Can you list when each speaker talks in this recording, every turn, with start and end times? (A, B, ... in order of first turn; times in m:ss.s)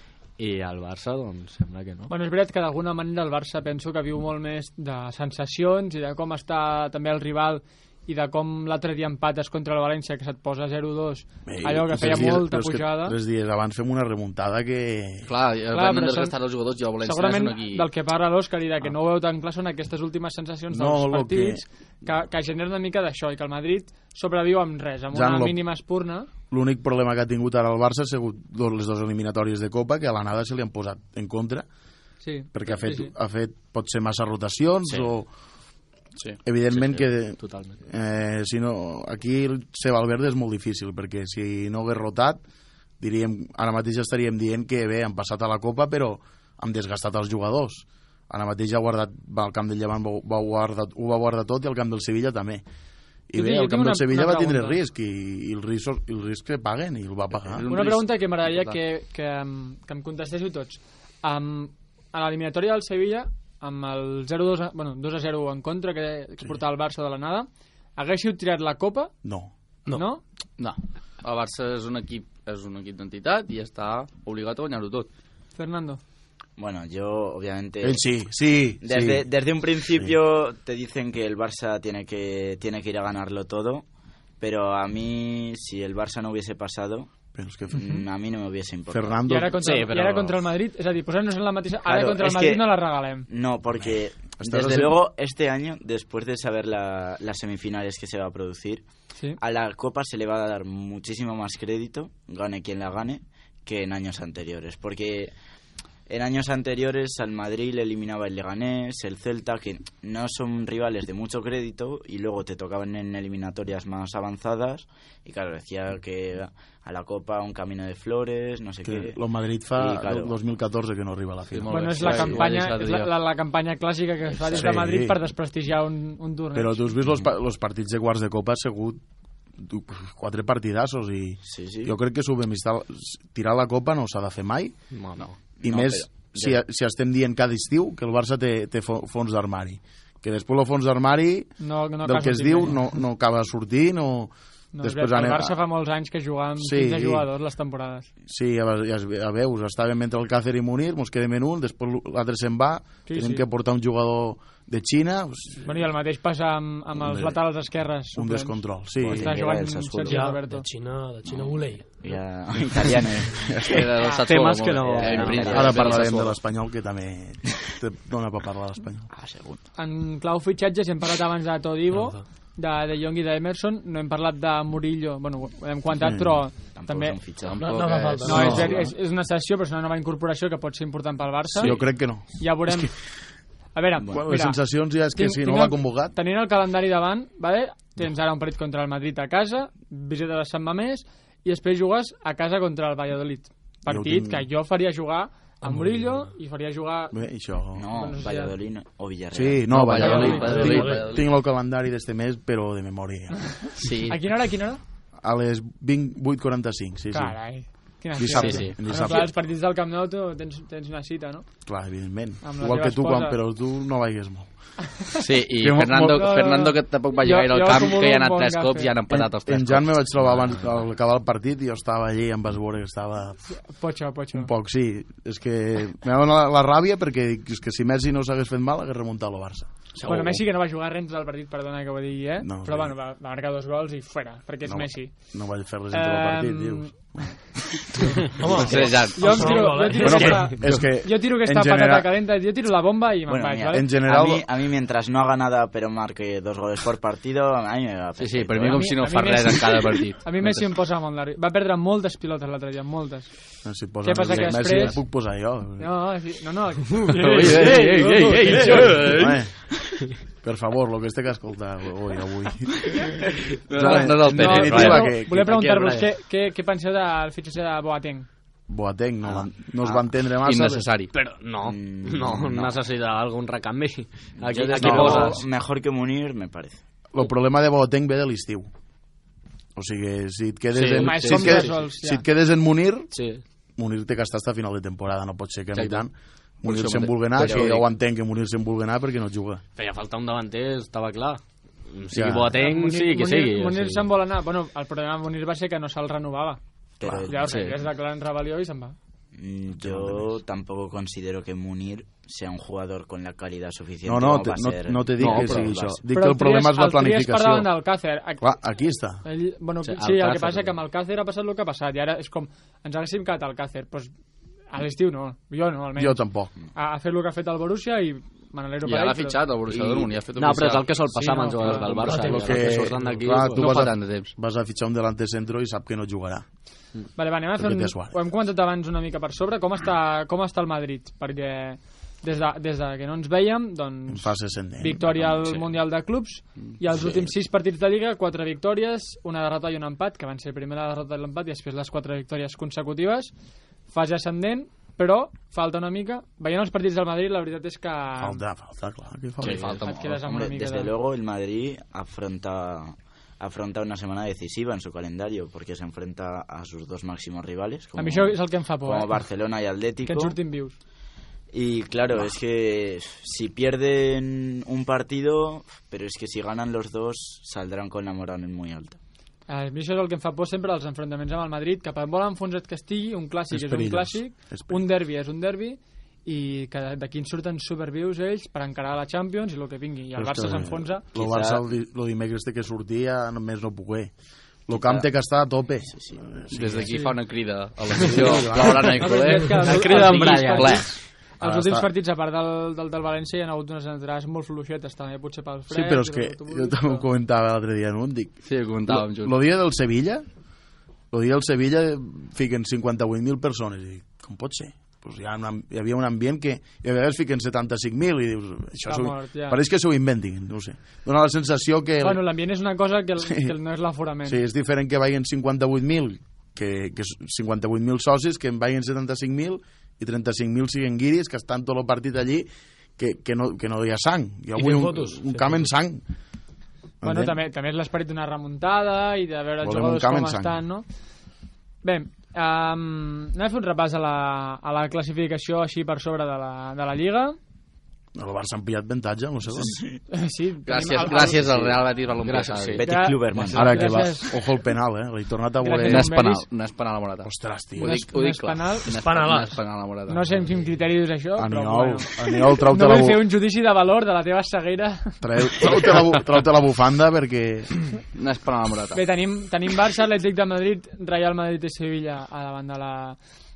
0:00.4-0:02.1 A
0:02.1-0:13.2 B
0:11.4-0:15.3 C
0:15.2-0:17.8 D
0:15.7-0:16.3 B
0:17.0-0:26.3 B
0:20.7-0:21.6 C
0:25.1-0:25.6 C
0:26.5-0:31.6 C
0:32.2-0:33.1 B
0:32.5-0:35.3 C
0:36.4-0:42.4 C
0:36.7-0:37.8 A
0:43.0-0:52.6 C
0:53.3-0:57.7 C
0:53.3-0:54.8 B
0:57.4-0:58.8 D
0:57.7-1:09.1 B
1:09.2-1:09.5 C
1:09.9-1:10.2 B
1:10.6-1:15.1 D
1:15.6-1:16.0 B
1:16.6-1:18.0 E
1:17.8-1:19.3 C
1:18.8-1:23.8 E
1:19.9-1:20.2 C
1:24.4-1:27.1 E
1:27.3-1:27.9 C
1:27.7-1:29.2 E
1:28.9-1:29.6 C
1:29.2-1:33.3 B
1:29.6-1:30.4 A
1:31.8-1:32.7 E
1:33.3-1:38.8 E
1:33.8-1:35.0 C
1:39.4-1:45.3 E
1:46.1-1:59.2 E
1:58.8-2:02.4 C
1:59.7-2:00.3 E
2:01.5-2:03.1 D
2:01.7-2:06.8 B
2:04.5-2:05.2 C
2:06.5-2:09.0 C
2:09.6-2:14.7 C
2:11.4-2:11.9 E
2:14.9-2:15.3 A
2:15.6-2:16.6 E
2:15.6-2:25.6 C
2:21.6-2:22.9 B
2:24.7-2:28.1 B
2:26.6-2:27.3 C
2:28.3-2:35.8 C
2:33.1-2:33.4 B
2:35.6-2:40.7 B
2:36.9-2:37.4 C
2:38.1-2:39.4 C
2:39.0-2:40.3 E
2:40.0-2:42.0 F
2:41.2-2:43.8 E
2:43.3-2:43.9 C
2:43.7-2:46.4 D
2:44.0-2:44.2 B
2:44.1-2:45.7 A
2:44.9-2:46.0 E
2:45.5-2:49.1 C
2:49.1-2:49.6 E
2:49.8-2:57.2 B
2:51.9-2:52.2 F
2:56.0-2:56.4 C
2:56.7-2:58.8 E
2:57.4-2:58.8 D
2:57.6-2:58.9 F
2:58.2-3:02.9 B
3:01.5-3:02.9 C
3:03.7-3:04.6 B
3:04.0-3:06.1 C
3:05.1-3:17.2 B
3:13.9-3:14.5 C
3:17.1-3:17.9 C
3:17.7-3:20.4 E
3:17.9-3:18.5 B
3:19.3-3:23.6 C
3:19.7-3:21.2 D
3:20.0-3:20.8 B
3:20.1-3:21.1 F
3:23.8-3:24.2 D
3:24.0-3:24.8 B
3:25.2-3:27.4 C
3:27.1-3:31.5 B
3:28.2-3:29.3 C
3:28.3-3:28.7 D
3:31.6-3:34.5 C
3:32.4-3:33.4 B
3:35.2-3:40.2 D
3:35.6-3:36.3 C
3:36.1-3:38.9 B
3:39.1-3:43.4 C
3:40.3-3:40.7 A
3:43.5-3:44.5 B
3:44.3-3:50.4 C
3:50.0-3:55.1 B
3:52.4-3:52.9 C
3:54.6-3:58.2 C
3:55.9-3:56.9 B
3:58.3-4:00.6 F
3:58.5-3:59.7 D
3:59.1-4:03.9 B
4:00.0-4:02.1 C
4:03.3-4:08.9 E
4:03.7-4:04.4 C
4:08.2-4:10.7 D
4:08.7-4:13.3 B
4:13.6-4:15.9 C
4:14.0-4:15.0 B
4:15.8-4:17.9 B
4:17.2-4:19.4 D
4:17.2-4:19.2 F
4:18.5-4:18.9 B
4:19.0-4:19.5 C
4:20.4-4:23.1 C
4:23.7-4:25.8 D
4:23.7-4:25.6 C
4:23.8-4:28.3 B
4:25.5-4:26.0 A
4:28.7-4:30.9 C
4:30.2-4:31.1 D
4:31.1-4:35.4 A
4:31.6-4:32.8 E
4:34.4-4:36.8 E
4:34.8-4:35.4 C
4:37.1-4:38.7 C
4:39.8-4:43.1 C
4:40.7-4:41.7 A
4:40.9-4:42.2 B
4:43.1-4:43.4 A
4:43.8-4:49.6 C
4:45.7-4:46.0 D
4:46.6-4:47.8 D
4:47.4-4:47.7 E
4:49.8-4:54.1 A
4:52.1-4:52.6 C
4:52.5-4:56.6 B
4:57.0-4:57.7 E
4:57.0-4:57.3 C
4:57.2-4:58.9 B
4:57.5-4:57.7 A
4:59.3-5:06.0 E
4:59.8-5:00.4 C
5:04.0-5:07.7 C
5:05.2-5:05.8 A
5:06.1-5:08.4 B
5:08.4-5:09.2 C
5:09.2-5:14.1 B
5:09.8-5:10.7 A
5:14.7-5:19.4 B
5:16.0-5:16.5 C
5:18.8-5:20.9 D
5:19.7-5:23.8 A
5:21.1-5:21.9 B
5:21.6-5:22.6 D
5:21.8-5:23.1 F
5:22.2-5:26.4 C
5:23.4-5:24.3 D
5:27.2-5:43.3 B
5:27.6-5:28.2 C
5:34.1-5:35.2 C
5:43.9-5:48.4 B
5:48.2-5:49.7 C
5:49.4-5:50.2 D
5:49.8-5:50.9 B
5:50.2-6:00.4 E
5:58.0-5:59.2 B
6:00.0-6:00.7 B
6:01.5-6:09.0 E
6:09.5-6:21.0 B
6:13.5-6:14.8 C
6:20.1-6:24.1 C
6:21.1-6:21.6 E
6:24.7-6:27.0 C
6:25.9-6:26.3 E
6:26.5-6:31.0 D
6:27.9-6:29.1 C
6:29.0-6:37.0 B
6:29.5-6:31.0 A
6:31.4-6:31.9 C
6:35.7-6:40.2 C
6:38.4-6:39.3 D
6:41.1-6:52.2 C
6:48.8-6:49.6 B
6:52.0-6:54.4 B
6:53.2-6:53.5 C
6:54.2-7:06.0 C
7:04.5-7:05.7 F
7:07.0-7:07.4 C
7:07.0-7:10.8 B
7:09.6-7:10.6 C
7:11.8-7:17.4 B
7:18.1-7:19.8 C
7:19.6-7:20.0 E
7:20.1-7:21.5 B
7:20.6-7:22.8 D
7:21.4-7:21.7 E
7:22.2-7:23.5 A
7:22.7-7:23.9 E
7:22.8-7:24.3 B
7:23.5-7:26.1 C
7:25.6-7:26.4 B
7:25.8-7:30.4 D
7:27.2-7:28.0 C
7:27.8-7:28.9 B
7:28.9-7:29.6 F
7:30.1-7:35.2 B
7:31.4-7:33.2 C
7:35.2-7:37.7 C
7:38.1-7:39.0 D
7:38.9-7:43.2 B